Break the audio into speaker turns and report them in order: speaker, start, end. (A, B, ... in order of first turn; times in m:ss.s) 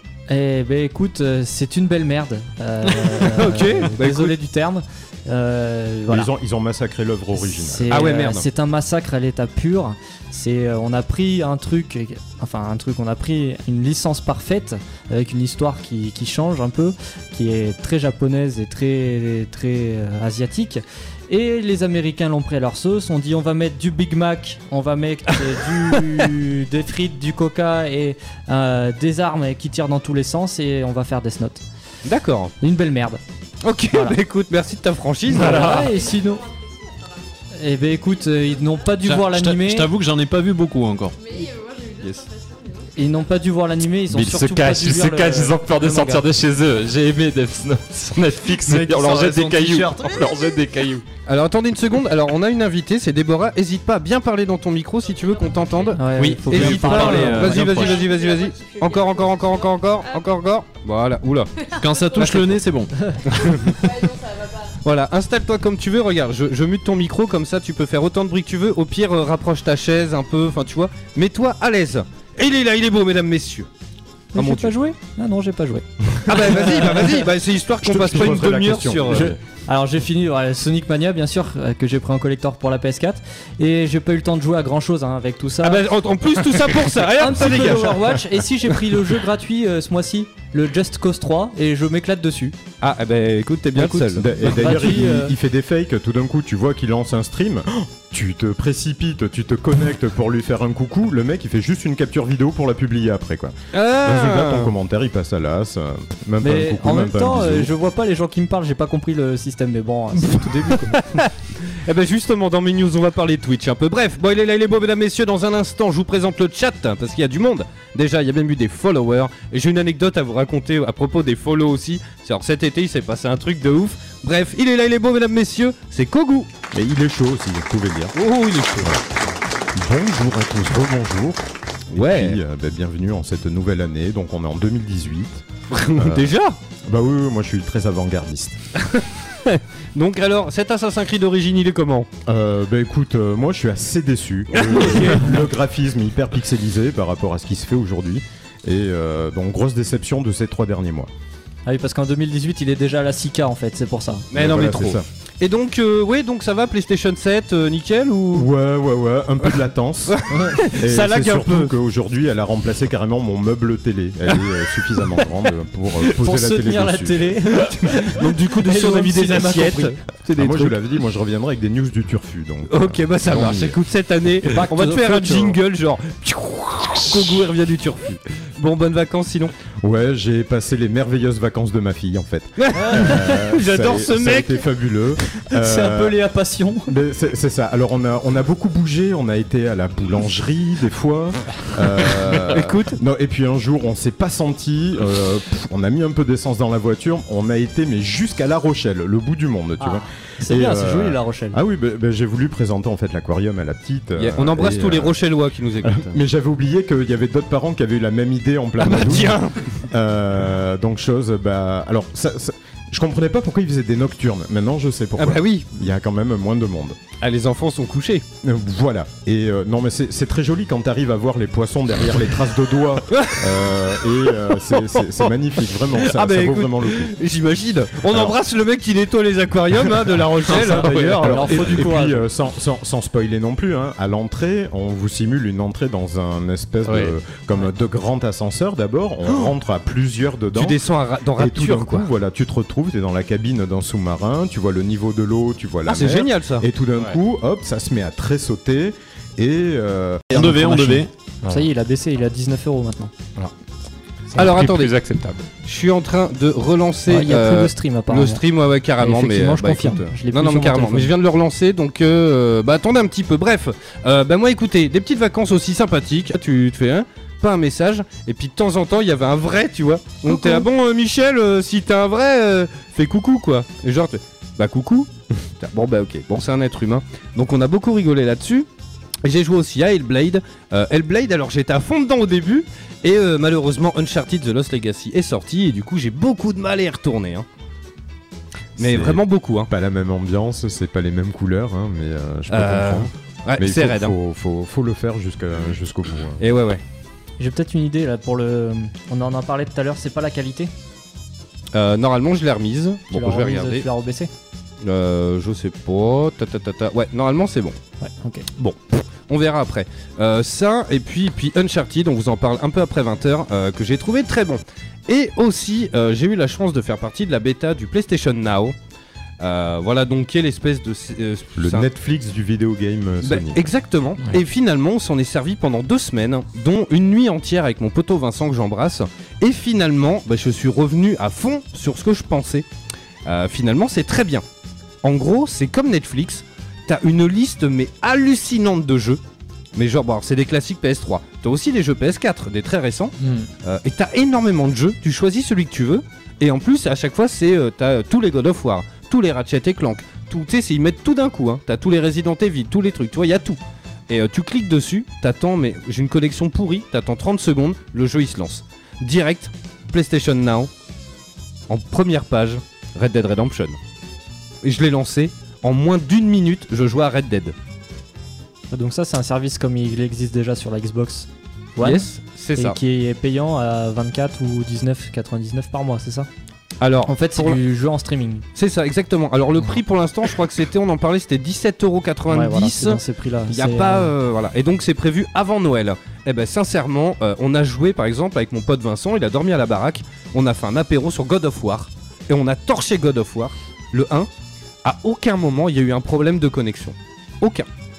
0:00.3-0:06.3 A
0:02.9-0:03.3 B
0:03.3-0:04.3 C
0:06.1-0:07.9 D
0:07.4-0:31.6 A
0:07.9-0:08.4 C
0:32.0-0:32.5 C
0:32.6-0:33.2 A
0:33.6-0:35.8 C
0:35.3-0:36.4 A
0:35.3-0:35.9 E
0:35.8-0:39.0 F
0:37.5-0:39.9 A
0:39.0-0:41.2 B
0:41.1-0:43.4 F
0:43.0-0:46.2 A
0:44.1-0:51.1 E
0:48.6-0:50.2 B
0:50.2-0:50.6 F
0:51.2-1:01.5 C
0:55.0-0:56.0 F
0:55.9-0:57.6 A
0:56.2-0:58.1 B
0:56.7-1:00.3 F
1:01.6-1:02.6 F
1:01.8-1:02.9 B
1:02.2-1:02.4 C
1:03.3-1:03.9 C
1:03.4-1:04.7 F
1:04.8-1:13.7 C
1:14.3-1:16.6 A
1:14.4-1:14.7 C
1:16.3-1:19.3 C
1:17.8-1:19.4 D
1:19.1-1:25.8 A
1:25.6-1:28.2 C
1:27.2-1:32.6 A
1:32.8-1:34.3 C
1:33.8-1:35.3 A
1:34.1-1:47.7 D
1:43.7-1:44.7 C
1:46.4-1:51.0 A
1:51.0-2:06.5 C
2:06.7-2:08.1 D
2:08.2-2:09.0 C
2:09.8-2:15.4 D
2:11.9-2:12.4 C
2:15.7-2:16.6 C
2:16.0-2:16.3 D
2:16.8-2:18.6 D
2:18.8-2:22.1 C
2:22.2-2:31.1 D
2:24.5-2:25.4 C
2:31.6-2:34.2 A
2:34.3-2:38.5 C
2:34.3-2:35.0 D
2:38.3-2:47.4 D
2:40.1-2:41.7 C
2:46.2-2:50.0 A
2:47.8-2:50.8 C
2:50.4-2:53.8 D
2:52.7-2:59.5 C
2:54.4-2:55.6 A
2:59.8-3:06.2 D
3:02.6-3:04.6 C
3:02.7-3:03.3 A
3:05.4-3:07.0 A
3:06.9-3:25.2 D
3:12.5-3:13.0 C
3:19.8-3:21.6 A
3:24.2-3:26.2 C
3:25.8-3:37.0 D
3:28.8-3:29.8 C
3:35.2-3:35.8 C
3:37.2-3:38.2 C
3:38.4-3:47.1 D
3:43.1-3:43.7 C
3:44.2-3:45.3 C
3:45.9-3:51.7 C
3:48.1-3:48.4 D
3:50.6-4:00.8 D
3:50.8-3:51.1 E
3:51.2-3:52.3 A
4:00.5-4:02.1 C
4:01.3-4:10.6 D
4:05.9-4:06.6 C
4:10.3-4:11.1 B
4:10.4-4:11.0 A
4:11.4-4:11.7 E
4:11.5-4:13.1 A
4:14.3-4:15.4 E
4:14.4-4:14.9 C
4:15.6-4:38.7 C
4:17.1-4:18.4 A
4:19.0-4:21.1 A
4:30.2-4:30.6 A
4:39.2-4:47.4 C
4:48.8-4:49.7 C
4:48.8-4:56.4 D
4:52.5-4:54.1 C
4:56.4-4:56.8 C
4:57.4-5:00.7 A
5:01.7-5:03.8 C
5:03.1-5:04.3 A
5:04.8-5:07.8 C
5:08.0-5:08.4 A
5:08.6-5:18.8 C
5:19.4-5:21.9 C
5:21.6-5:23.6 D
5:23.2-5:32.6 C
5:33.2-5:34.4 C
5:35.0-5:39.2 C
5:39.8-6:00.7 C
5:43.2-5:43.5 E
6:01.7-6:03.8 C
6:04.6-6:07.6 C
6:08.7-6:16.3 A
6:11.8-6:12.8 C
6:16.8-6:17.6 C
6:17.1-6:18.4 A
6:18.5-6:34.3 C
6:22.3-6:24.1 A
6:34.8-6:37.7 C